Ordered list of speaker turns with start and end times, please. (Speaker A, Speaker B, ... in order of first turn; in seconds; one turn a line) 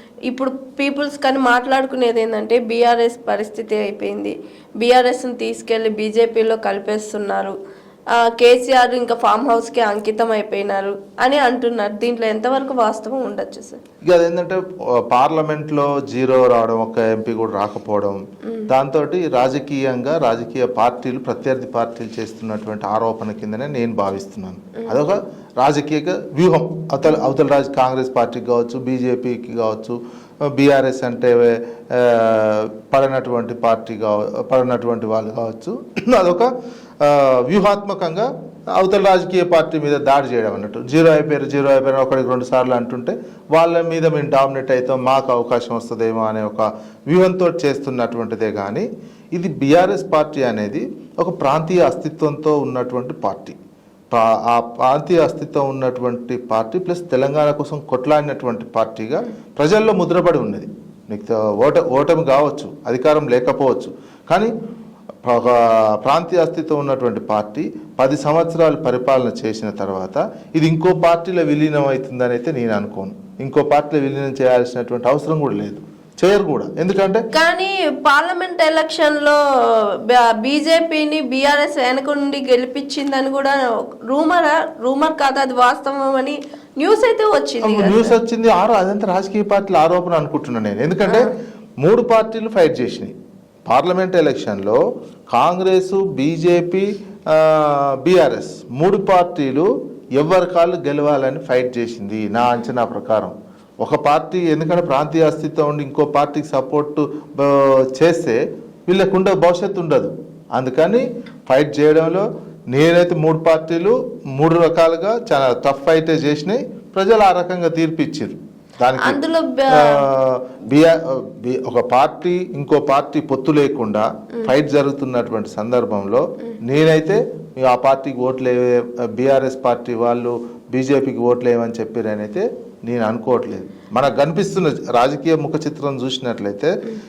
Speaker A: 0.3-7.5
Speaker A: 8.2-13.8
Speaker B: 14.1-36.5
Speaker B: 37.0-53.5
Speaker B: 54.1-64.5
Speaker B: 65.2-77.2
Speaker A: 77.3-79.4
Speaker A: 80.1-88.1
Speaker B: 87.6-91.3
Speaker B: 91.8-93.1
Speaker B: 93.7-94.8
Speaker B: 95.3-119.2
Speaker A: 119.0-120.0
Speaker B: 119.7-136.8